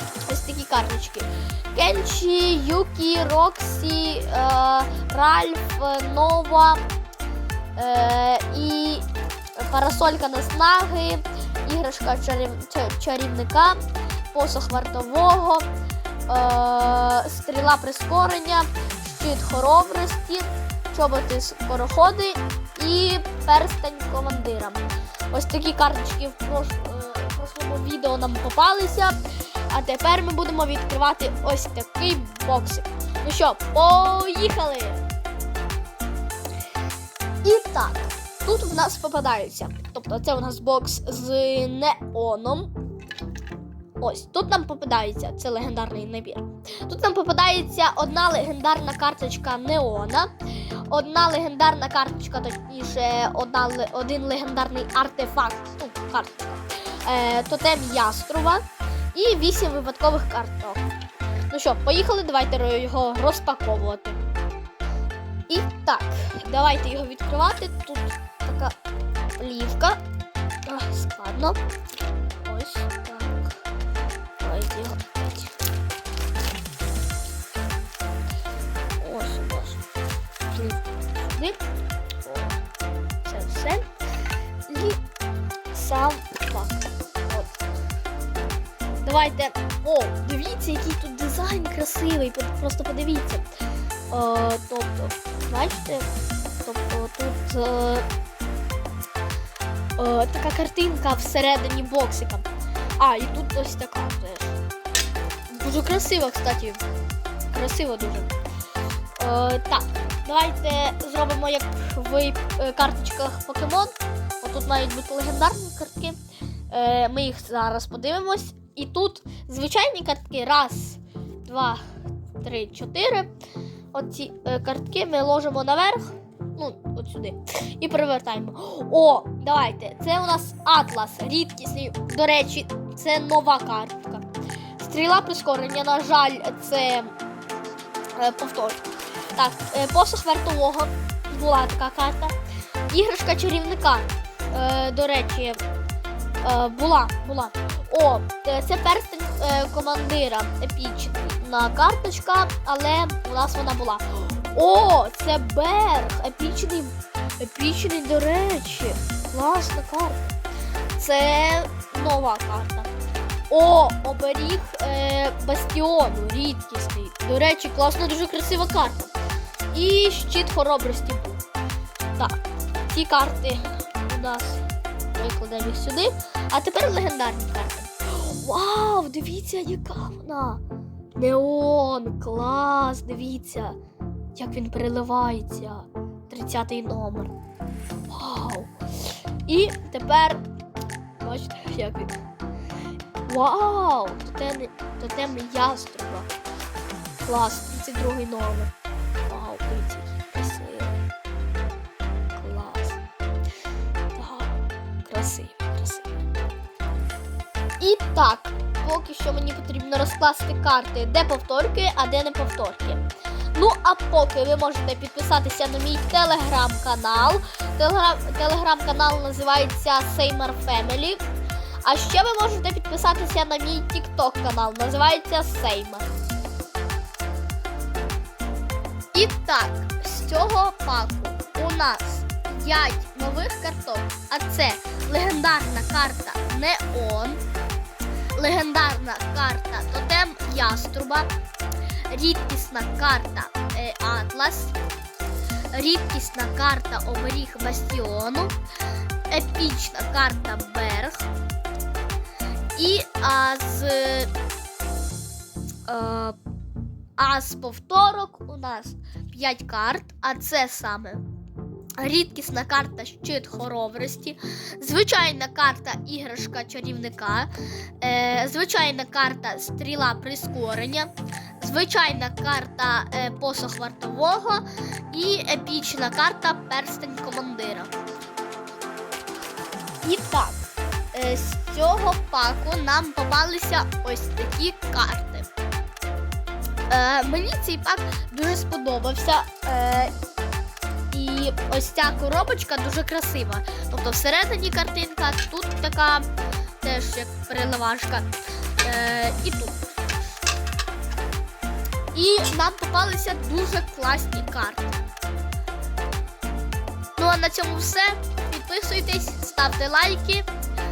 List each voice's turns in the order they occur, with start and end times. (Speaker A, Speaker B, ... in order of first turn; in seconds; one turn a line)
Speaker A: 0.3-6.8
Speaker A: 7.8-9.1
Speaker A: 9.6-13.8
Speaker A: 14.3-15.7
Speaker A: 16.3-29.2
Speaker A: 29.7-35.1
Speaker A: 37.4-42.7
Speaker A: 44.0-50.3
Speaker A: 50.9-60.9
Speaker A: 61.5-64.2
Speaker A: 65.5-68.8
Speaker A: 69.4-70.0
Speaker A: 70.7-71.6
Speaker A: 72.4-73.6
Speaker A: 74.4-75.6
Speaker A: 79.0-79.8
Speaker A: 80.5-81.6
Speaker A: 82.2-82.6
Speaker A: 83.2-83.9
Speaker A: 84.7-85.0
Speaker A: 85.7-87.6
Speaker A: 89.0-93.5
Speaker A: 94.1-96.1
Speaker A: 96.6-98.1
Speaker A: 100.0-104.6
Speaker A: 105.5-106.8
Speaker A: 107.5-108.3
Speaker A: 109.2-116.2
Speaker A: 116.7-121.8
Speaker A: 122.4-123.3
Speaker A: 123.9-134.2
Speaker A: 134.8-137.2
Speaker A: 138.2-142.4
Speaker A: 142.9-145.6
Speaker A: 146.4-160.3
Speaker A: 161.0-162.9
Speaker A: 163.5-169.1
Speaker A: 169.7-171.4
Speaker A: 172.2-180.6
Speaker A: 181.2-183.8
Speaker A: 184.3-187.3
Speaker A: 188.1-188.7
Speaker A: 189.5-190.4
Speaker A: 191.2-192.2
Speaker A: 193.3-196.3
Speaker A: 197.2-198.7
Speaker A: 199.3-201.0
Speaker A: 202.3-203.0
Speaker A: 204.2-206.1
Speaker A: 207.8-221.2
Speaker A: 221.8-226.1
Speaker A: 229.1-237.4
Speaker A: 238.3-241.3
Speaker A: 242.1-244.8
Speaker A: 245.7-248.6
Speaker A: 249.3-251.3
Speaker A: 252.8-254.3
Speaker A: 255.9-256.4
Speaker A: 257.2-261.2
Speaker A: 262.0-267.5
Speaker A: 268.0-277.9
Speaker A: 280.0-285.5
Speaker A: 286.9-290.1
Speaker A: 291.1-296.3
Speaker A: 296.8-298.3
Speaker A: 298.8-299.8
Speaker A: 302.1-305.0
Speaker A: 307.2-310.5